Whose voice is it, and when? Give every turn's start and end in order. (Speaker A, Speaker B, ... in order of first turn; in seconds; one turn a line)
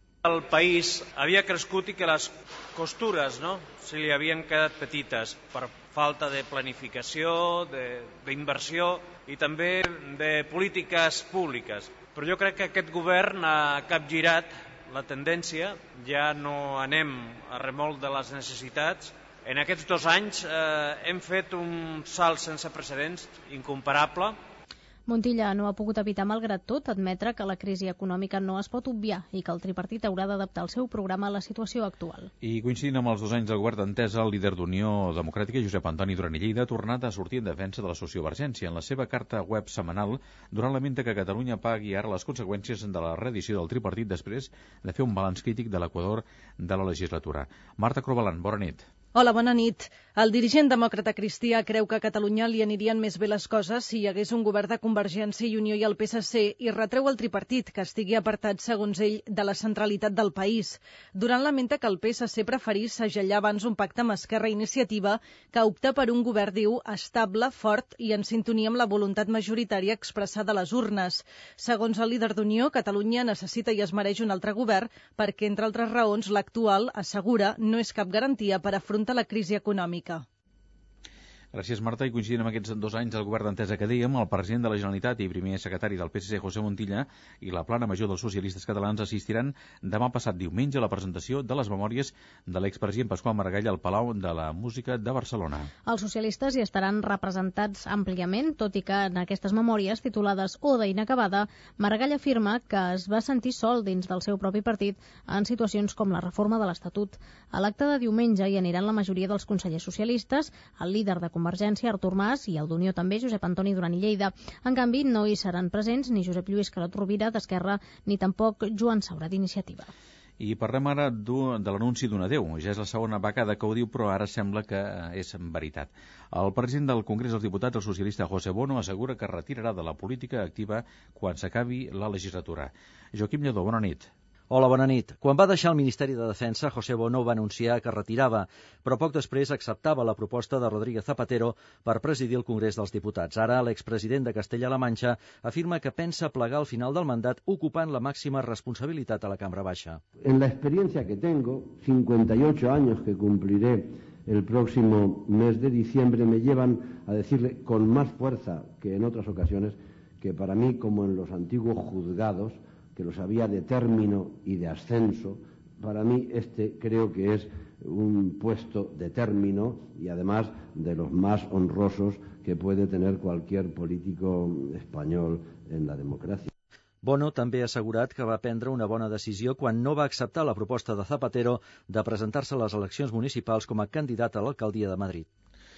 Speaker A: 0.2-24.4
Speaker B: 25.1-32.3
Speaker C: 32.4-48.9
Speaker D: 49.1-80.2
Speaker C: 81.5-95.7
Speaker B: 95.9-119.9
Speaker C: 120.4-134.1
Speaker E: 134.5-150.0
Speaker F: 150.2-176.5
Speaker E: 177.0-185.3